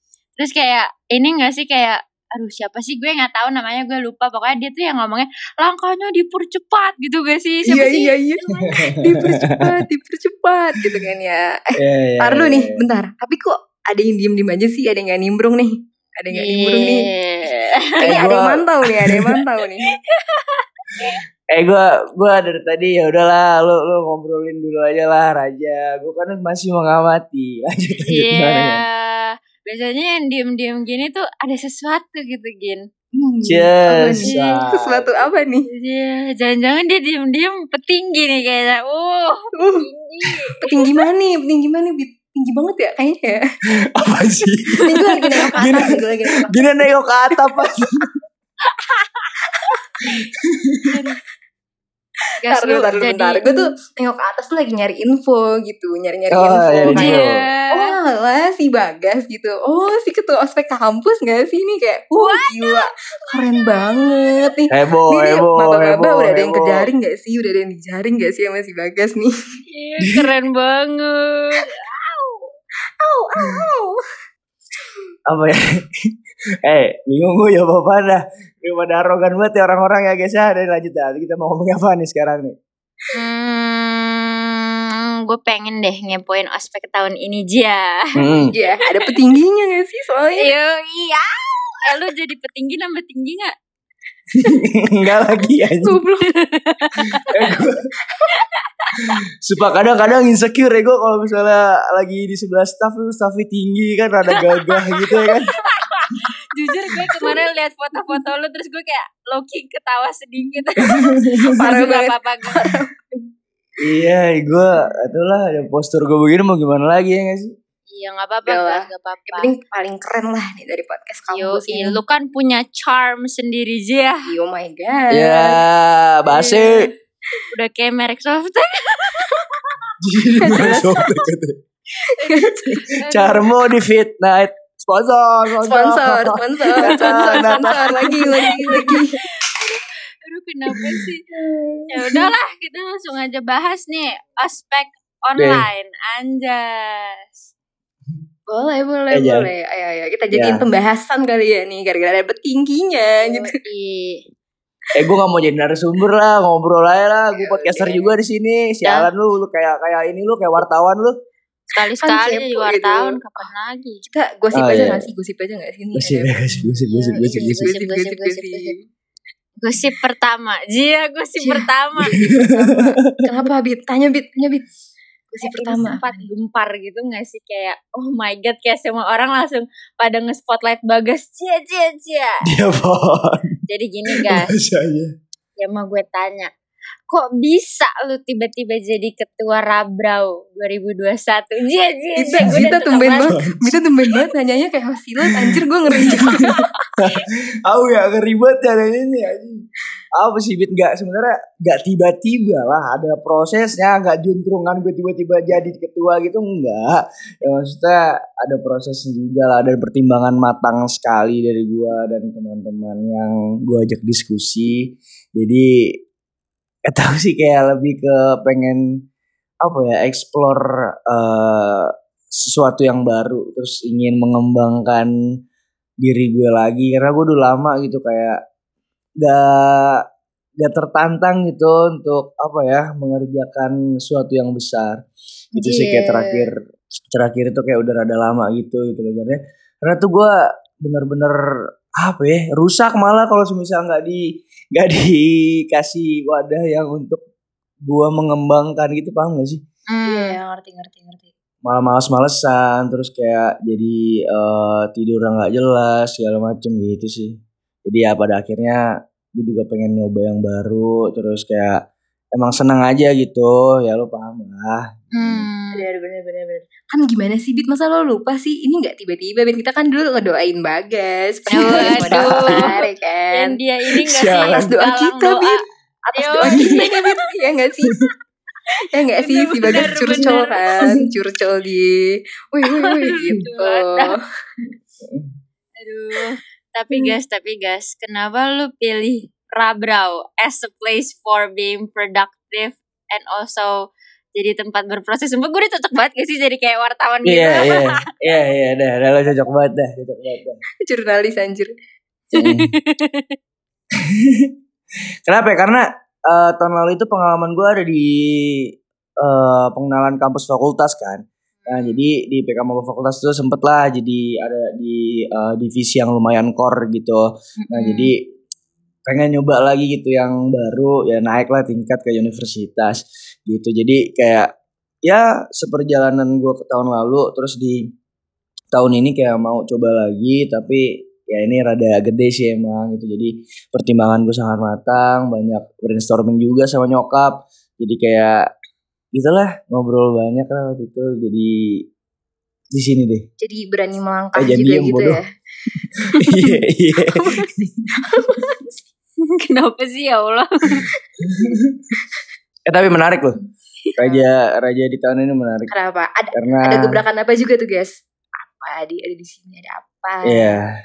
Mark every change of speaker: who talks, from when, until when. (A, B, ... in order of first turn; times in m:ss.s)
0:00.4-0:08.9 A
0:07.6-0:20.0 B
0:08.7-0:09.7 C
0:11.8-0:12.8 C
0:16.3-0:18.1 A
0:18.0-0:19.4 C
0:19.9-0:21.2 A
0:21.0-0:28.8 C
0:28.1-0:32.8 A
0:33.2-0:35.7 B
0:33.5-0:35.3 C
0:35.7-0:40.8 A
0:39.6-0:39.9 B
0:40.6-0:43.4 B
0:43.7-0:45.9 C
0:44.8-0:47.6 B
0:46.5-0:48.1 C
0:48.7-0:49.3 A
0:49.6-0:50.2 B
0:50.1-0:50.9 C
0:52.4-0:53.7 A
0:52.5-1:09.3 B
0:56.3-0:57.4 C
0:56.9-0:57.9 A
1:02.1-1:02.9 A
1:03.5-1:04.5 A
1:04.7-1:06.9 C
1:09.7-1:12.5 A
1:10.0-1:10.3 C
1:13.0-1:14.0 B
1:15.3-1:16.1 C
1:16.6-1:22.5 C
1:23.1-1:29.1 A
1:28.2-1:28.5 C
1:28.5-1:30.5 B
1:30.4-1:33.5 A
1:34.3-1:36.0 C
1:35.8-1:36.3 B
1:36.4-1:37.3 A
1:37.2-1:37.9 C
1:38.3-1:39.0 A
1:39.0-1:45.6 C
1:44.4-1:52.7 A
1:46.9-1:47.3 B
1:47.0-1:47.2 C
1:50.5-1:53.2 B
1:50.8-1:51.6 C
1:53.8-1:57.5 C
1:57.9-1:59.5 A
1:58.4-2:02.0 B
2:01.3-2:04.2 A
2:04.2-2:05.6 B
2:05.1-2:06.9 C
2:06.3-2:06.9 A
2:07.5-2:09.8 A
2:10.0-2:11.6 C
2:10.4-2:11.2 B
2:10.4-2:11.1 A
2:12.0-2:12.9 B
2:12.2-2:13.5 A
2:12.7-2:19.0 C
2:15.6-2:19.2 B
2:16.8-2:21.2 A
2:20.8-2:21.0 C
2:21.6-2:22.2 B
2:21.9-2:27.3 A
2:25.4-2:25.6 C
2:28.5-2:33.5 B
2:29.1-2:29.5 C
2:30.3-2:30.6 C
2:33.2-2:34.2 A
2:34.9-2:41.1 C
2:37.3-2:38.1 B
2:38.8-2:39.1 A
2:41.7-2:44.0 A
2:42.0-2:43.5 B
2:44.0-2:48.8 B
2:44.5-2:45.1 C
2:46.0-2:47.7 C
2:46.9-2:48.7 A
2:49.6-2:52.2 A
2:51.4-2:54.7 B
2:52.0-2:52.9 C
2:55.3-2:56.3 B
2:55.4-3:02.4 A
3:02.4-3:05.1 C
3:03.7-3:04.5 A
3:05.6-3:06.5 A
3:07.1-3:13.3 A
3:12.2-3:16.7 B
3:13.3-3:13.7 C
3:15.3-3:19.6 C
3:20.2-3:34.8 C
3:35.3-3:35.7 C
3:36.9-3:38.8 C
3:39.6-3:45.1 C
3:46.0-3:48.4 C
3:49.2-3:50.0 C
3:50.6-3:55.0 C
3:55.5-3:56.6 C
3:55.6-3:56.4 A
3:57.1-4:01.4 C
4:02.0-4:04.2 C
4:04.7-4:07.2 C
4:07.8-4:09.6 C
4:09.9-4:10.4 A
4:10.0-4:11.3 B
4:11.6-4:18.8 C
4:19.3-4:21.8 C
4:22.3-4:25.5 C
4:25.1-4:25.8 A
4:25.7-4:38.0 B
4:31.5-4:35.6 A
4:31.6-4:32.7 C
4:34.1-4:34.6 C
4:36.2-4:37.2 A
4:38.8-4:44.2 B
4:39.1-4:41.0 A
4:42.7-4:44.2 A
4:45.0-4:45.3 C
4:45.8-4:53.7 A
4:54.4-4:58.0 A
4:57.2-5:00.6 C
5:00.8-5:01.7 B
5:02.3-5:03.3 A
5:02.4-5:02.7 C
5:04.0-5:04.5 C
5:05.3-5:08.7 C
5:09.2-5:18.2 C
5:11.6-5:12.0 A
5:17.6-5:18.1 A
5:19.0-5:24.5 C
5:25.0-5:27.8 C
5:28.7-5:38.4 C
5:39.1-5:41.6 C
5:42.7-5:43.2 C
5:43.4-5:45.3 B
5:44.4-5:45.2 C
5:45.7-5:48.1 C
5:46.1-5:48.8 B
5:49.4-5:50.9 A
5:51.2-5:51.6 B
5:51.2-5:51.8 C
5:52.7-5:53.4 C
5:54.0-5:55.7 C
5:55.7-6:00.6 B
5:56.3-5:57.0 C
6:00.2-6:00.7 C